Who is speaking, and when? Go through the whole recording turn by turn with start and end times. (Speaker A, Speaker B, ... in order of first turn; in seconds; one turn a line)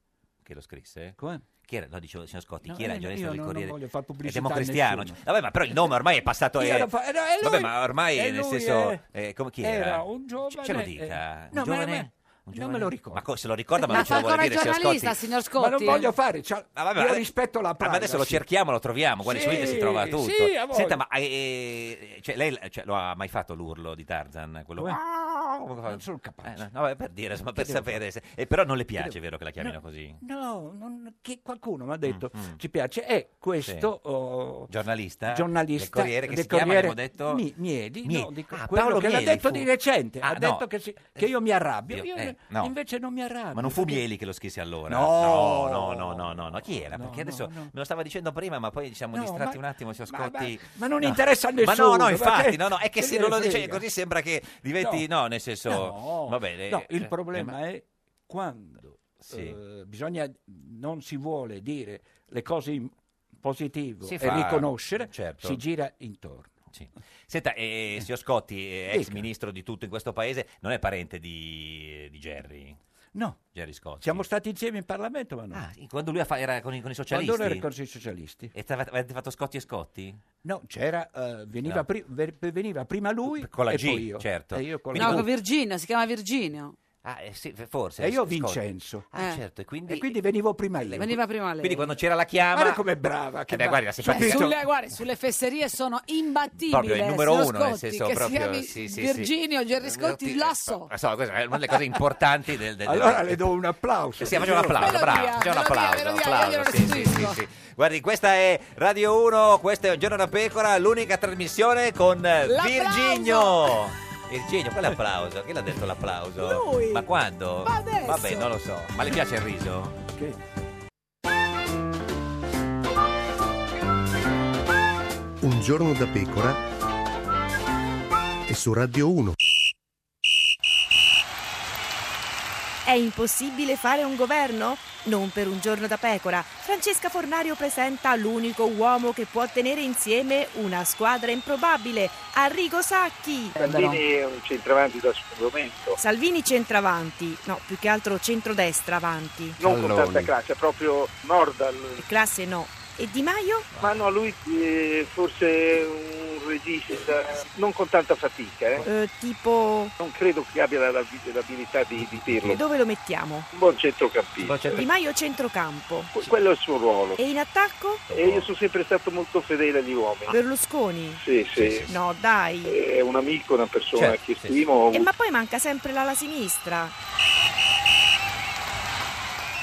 Speaker A: 0.4-6.9
Speaker B: 1.2-1.4
Speaker B: 2.6-5.2
Speaker B: 6.6-9.0
Speaker A: 7.4-15.2
Speaker B: 9.6-13.2
Speaker C: 13.8-16.1
Speaker B: 13.9-14.5
Speaker B: 15.6-18.4
Speaker A: 16.7-17.3
Speaker A: 17.8-30.2
Speaker B: 19.2-21.0
Speaker B: 25.8-26.6
Speaker B: 27.5-28.0
Speaker B: 29.0-34.7
Speaker A: 32.1-32.6
Speaker A: 34.7-37.4
Speaker B: 35.3-44.0
Speaker A: 38.0-39.7
Speaker A: 40.2-40.6
Speaker A: 41.9-42.7
Speaker A: 43.5-57.5
Speaker B: 44.9-47.7
Speaker B: 49.1-53.8
Speaker B: 54.8-55.0
Speaker B: 55.7-66.5
Speaker A: 59.3-59.6
Speaker A: 64.0-65.6
Speaker A: 66.7-72.8
Speaker B: 68.9-69.3
Speaker B: 73.1-73.4
Speaker A: 73.5-74.2
Speaker B: 74.0-75.6
Speaker A: 75.5-77.7
Speaker B: 77.1-78.5
Speaker A: 78.5-80.2
Speaker B: 80.4-85.3
Speaker A: 83.3-85.3
Speaker C: 84.9-86.7
Speaker A: 87.0-88.6
Speaker B: 88.0-89.1
Speaker A: 89.1-90.1
Speaker B: 89.9-91.1
Speaker A: 90.9-92.8
Speaker C: 90.9-91.8
Speaker B: 92.5-94.6
Speaker A: 93.5-94.5
Speaker C: 94.0-100.9
Speaker A: 96.7-103.5
Speaker B: 102.8-105.3
Speaker A: 104.2-120.0
Speaker C: 104.8-107.4
Speaker C: 112.4-113.8
Speaker C: 116.4-117.0
Speaker C: 117.6-118.5
Speaker D: 125.4-126.6
Speaker D: 128.5-129.3
Speaker E: 132.8-143.6
Speaker F: 143.6-146.0
Speaker C: 143.7-143.9
Speaker E: 146.0-149.6
Speaker F: 149.6-152.0
Speaker E: 152.0-153.7
Speaker F: 153.8-158.9
Speaker E: 158.8-159.9
Speaker F: 160.0-162.6
Speaker E: 162.4-163.5
Speaker F: 163.5-164.8
Speaker A: 164.4-164.8
Speaker E: 164.7-166.1
Speaker F: 166.1-167.2
Speaker E: 167.2-168.1
Speaker F: 168.1-170.3
Speaker A: 168.1-168.5
Speaker E: 170.3-171.2
Speaker F: 171.2-171.8
Speaker A: 171.6-171.9
Speaker E: 171.8-172.8
Speaker F: 172.6-175.1
Speaker A: 173.9-174.6
Speaker E: 174.9-176.9